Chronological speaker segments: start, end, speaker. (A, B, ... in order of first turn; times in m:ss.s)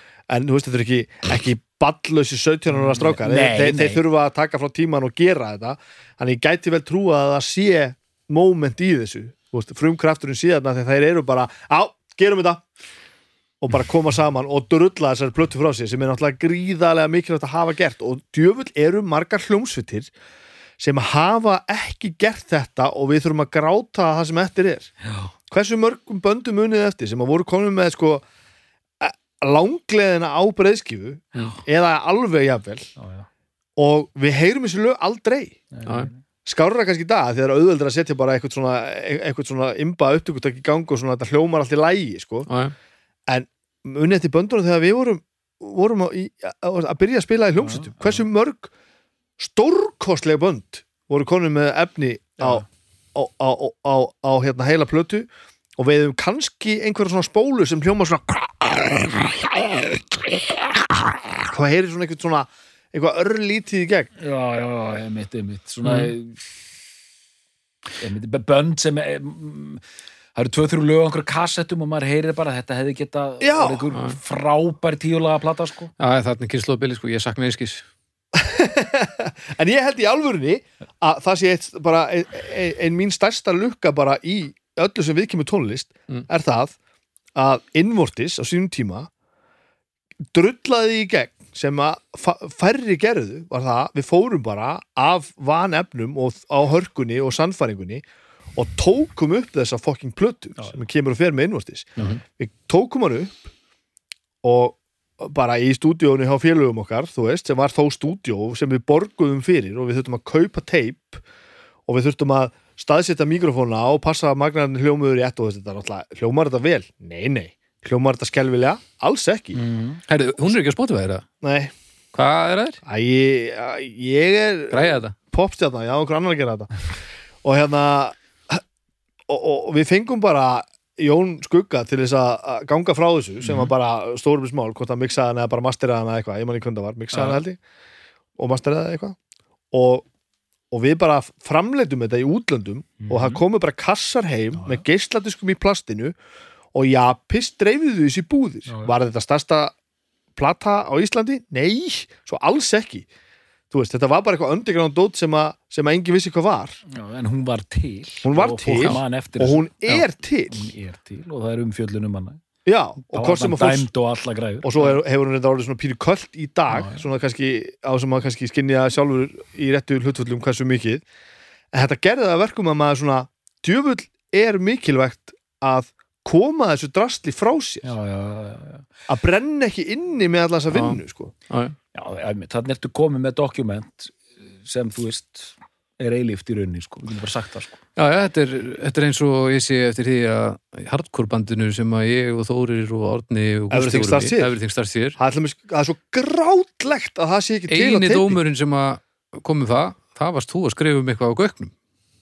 0:00.3-0:12.6 A
0:02.7-0:04.0 B
0:13.6-0:20.1 A
0:20.8-0:24.9 A
0:25.5-0:28.2 A
0:29.0-0:32.9 A
0:33.0-0:33.3 B
0:33.8-0:35.6 A
0:35.7-0:36.2 B
0:36.4-0:42.5 A
0:42.5-0:42.7 C
0:43.3-0:48.7 A
0:49.4-1:04.1 A
1:04.2-1:06.6 B
1:05.8-1:06.1 C
1:08.0-1:09.8 B
1:10.3-1:15.9 B
1:13.4-1:13.9 A
1:16.0-1:17.8 C
1:18.3-1:26.7 A
1:27.3-1:29.1 A
1:30.3-1:38.0 A
1:38.5-1:43.4 A
1:44.4-1:51.2 A
1:51.9-1:59.6 A
1:59.5-2:00.0 B
2:00.1-2:01.2 C
2:01.4-2:01.7 A
2:02.1-2:02.8 C
2:02.9-2:06.7 A
2:04.7-2:05.1 C
2:07.4-2:08.6 A
2:09.3-2:17.6 A
2:13.4-2:13.7 B
2:17.1-2:17.4 B
2:18.4-2:19.2 A
2:19.7-2:20.1 A
2:20.7-2:26.1 A
2:23.0-2:23.4 B
2:26.7-2:29.7 A
2:28.7-2:28.9 B
2:30.4-2:33.0 A
2:33.7-2:36.8 A
2:36.9-2:39.7 B
2:38.2-2:40.7 A
2:40.5-2:42.4 B
2:42.6-2:43.9 A
2:43.1-2:45.0 B
2:44.6-2:51.0 A
2:46.7-2:47.0 B
2:51.7-2:57.9 A
2:57.8-2:58.9 B
2:59.1-3:01.3 A
3:00.7-3:01.8 C
3:01.9-3:07.8 B
3:08.0-3:15.2 C
3:13.7-3:14.5 A
3:15.2-3:18.4 A
3:17.7-3:21.7 C